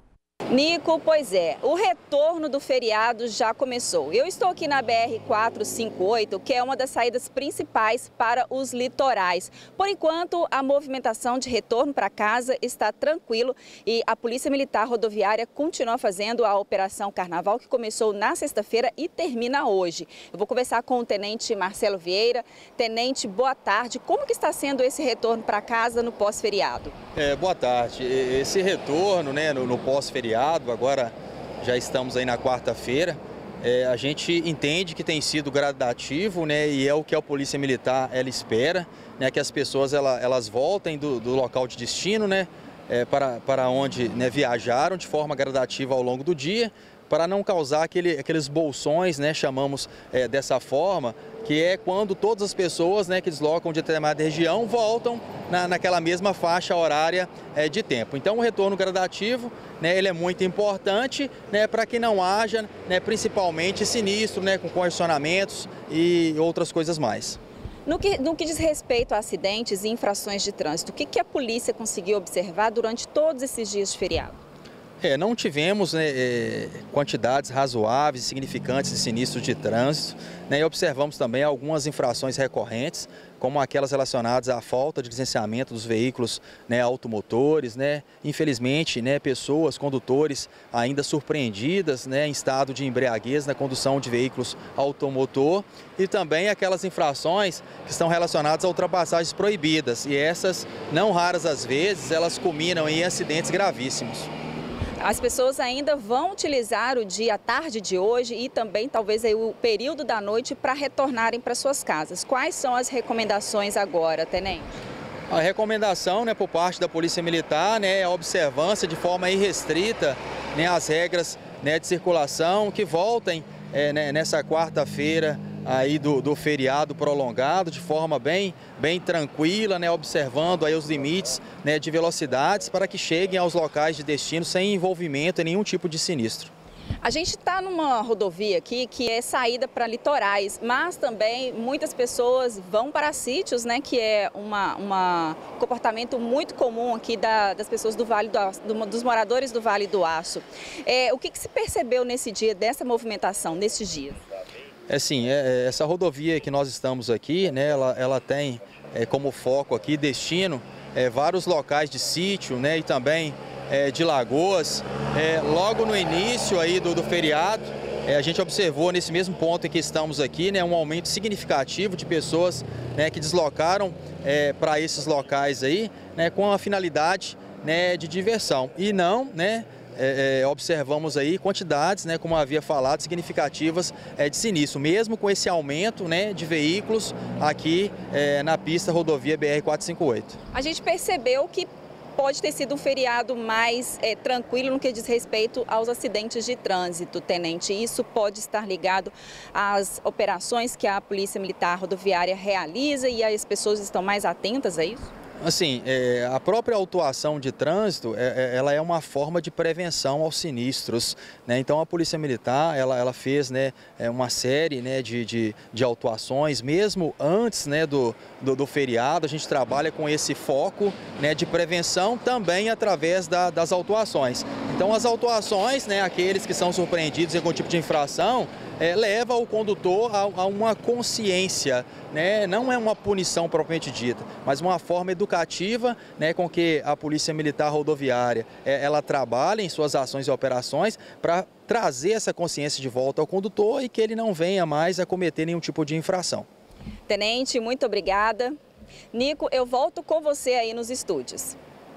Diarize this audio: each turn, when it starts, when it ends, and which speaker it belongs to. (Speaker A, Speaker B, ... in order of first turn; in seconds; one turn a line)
Speaker A: 0.5-26.9
Speaker B: 27.1-67.4
Speaker A: 67.9-74.4
Speaker B: 75.0-104.3
Speaker A: 105.0-114.8
Speaker B: 115.3-136.5
Speaker A: 137.0-154.2
Speaker B: 154.9-190.4
Speaker A: 190.5-205.1
Speaker B: 205.4-246.5
Speaker A: 247.1-248.6
Speaker A: 249.1-251.6